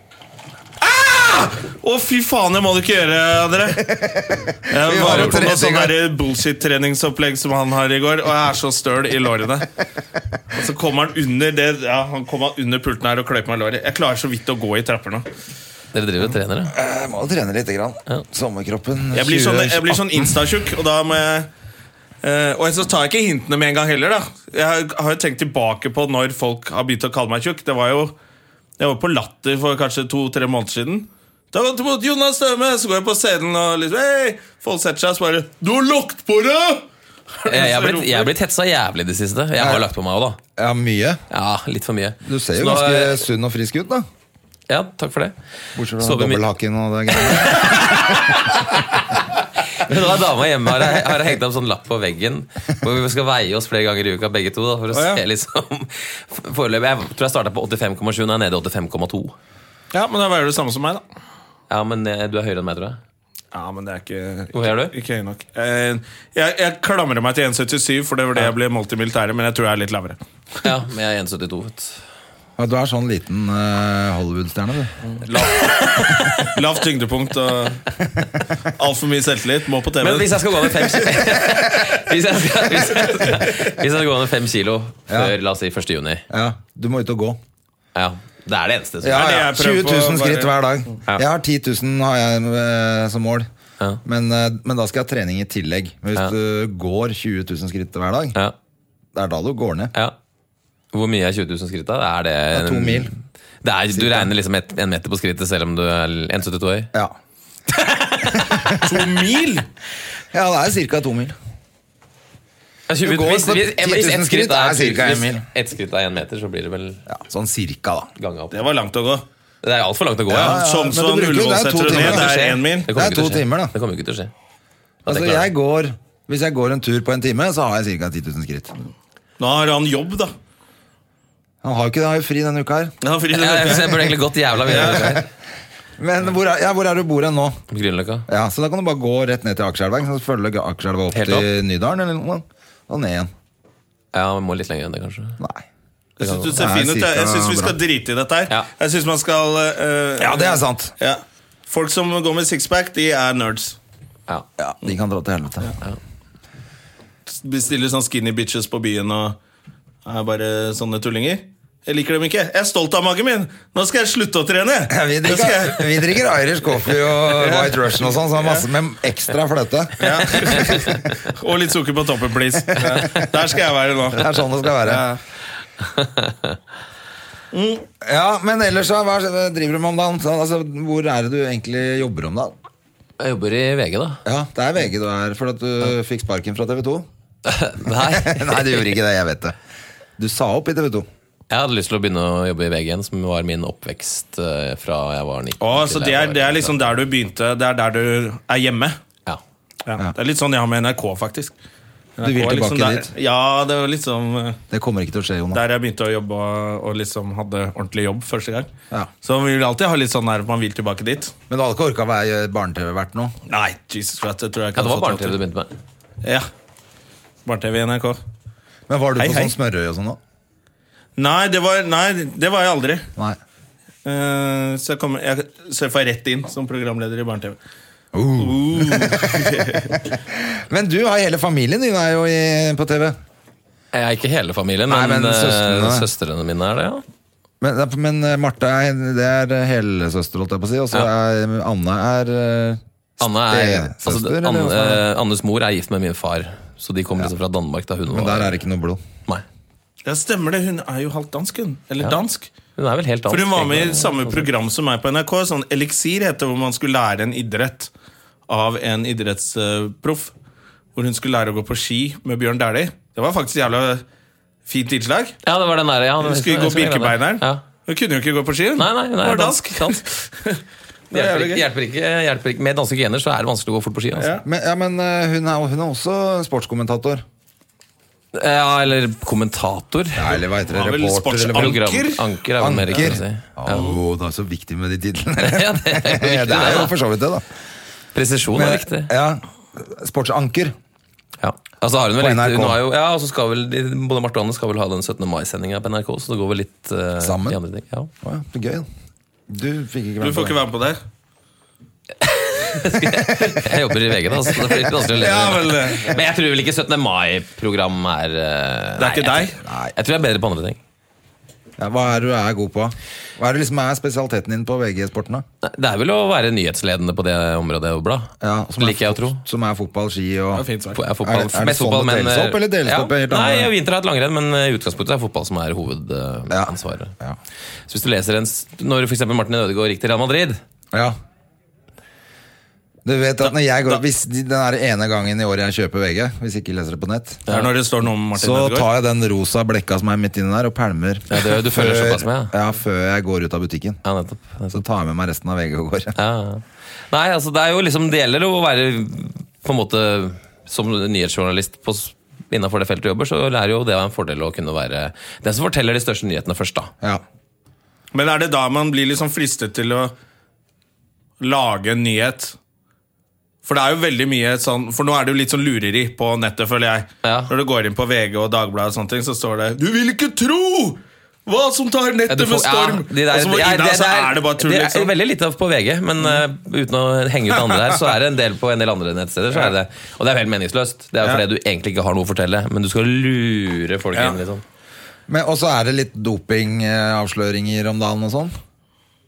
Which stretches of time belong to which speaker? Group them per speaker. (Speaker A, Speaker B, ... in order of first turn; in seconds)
Speaker A: 0.8-3.9, 4.7-9.7, 10.5-15.3, 19.1-21.5, 22.2-28.1, 28.8-36.9, 37.4-38.3, 54.9-55.2, 59.9-61.0, 63.5-70.2, 75.0-77.8, 78.8-81.0, 83.1-83.4, 89.1-90.5, 108.8-109.7, 118.5-119.2, 120.3-122.9, 129.4-130.3, 133.0-134.2, 134.7-135.0, 146.2-153.8, 157.3-159.4, 160.1-166.1, 167.3-168.6, 170.0-175.2, 177.5-177.8, 195.6-199.0, 199.9-201.5, 202.2-204.6, 205.5-208.7, 209.2-211.3, 213.5-215.4, 216.2-216.5, 217.4-218.2, 219.2-219.5, 221.2-223.1, 224.1-227.6, 228.4-230.1, 250.1-252.5, 253.3-257.9, 258.5-260.3, 260.9-264.0, 264.7-265.4, 266.2-271.6, 274.2-274.4, 280.7-282.2, 283.7-284.0, 300.2-301.0, 305.0-306.1, 309.0-309.6, 320.5-321.0, 337.5-338.9, 358.1-360.1, 361.4-362.6, 363.6-375.1
Speaker B: 3.8-6.0, 16.7-20.3, 40.6-41.2, 42.2-44.1, 45.8-48.4, 72.6-74.9, 85.1-85.3, 86.3-87.4, 89.0-93.5, 94.0-98.4, 99.2-99.9, 102.5-103.1, 103.9-104.3, 108.5-109.0, 110.3-111.4, 113.0-115.5, 117.1-118.1, 120.3-123.7, 125.1-128.8, 131.6-132.9, 134.7-135.2, 136.0-137.6, 138.3-143.3, 145.4-145.7, 146.5-147.8, 150.2-150.9, 154.6-155.7, 164.9-171.0, 172.7-173.3, 174.1-175.0, 178.0-182.6, 184.3-187.1, 187.8-189.6, 190.2-191.1, 202.2-203.1, 204.7-205.6, 211.5-213.3, 218.9-220.2, 228.1-229.5, 230.3-233.2, 234.9-236.1, 237.6-245.0, 248.1-249.0, 274.4-277.2, 280.2-281.8, 282.6-287.4, 288.5-290.8, 292.2-292.8, 297.2-297.6, 298.2-298.9, 299.5-300.6, 303.3-303.6, 309.6-309.9, 311.8-315.4, 318.4-320.7, 321.2-323.7, 326.5-327.4, 333.1-337.4, 338.4-344.0, 344.7-346.1, 385.3-388.6
Speaker C: 5.0-5.4, 15.9-16.8, 37.5-40.4, 41.3-43.2, 44.7-45.4, 46.0-46.4, 47.1-59.4, 61.7-63.0, 64.5-64.9, 70.6-72.0, 75.5-76.5, 80.0-86.3, 88.0-89.3, 100.9-106.9, 107.7-108.8, 112.9-117.0, 118.2-118.6, 119.6-120.6, 121.9-124.3, 125.0-125.5, 133.3-135.2, 137.7-138.3, 141.1-141.5, 144.1-145.4, 146.2-146.5, 175.8-176.6, 183.2-184.2, 187.4-188.9, 191.5-196.9, 214.8-215.7, 233.9-237.0, 243.2-248.6, 252.8-254.5, 265.4-267.6, 268.8-270.0, 271.1-274.3, 278.3-280.3, 281.5-283.9, 285.4-286.9, 288.1-289.1, 291.4-298.1, 302.2-310.8, 315.6-319.4, 320.9-327.1, 327.9-330.6, 337.5-337.7, 341.3-342.5, 344.0-344.8, 346.2-356.9, 367.2-367.5, 372.3-384.6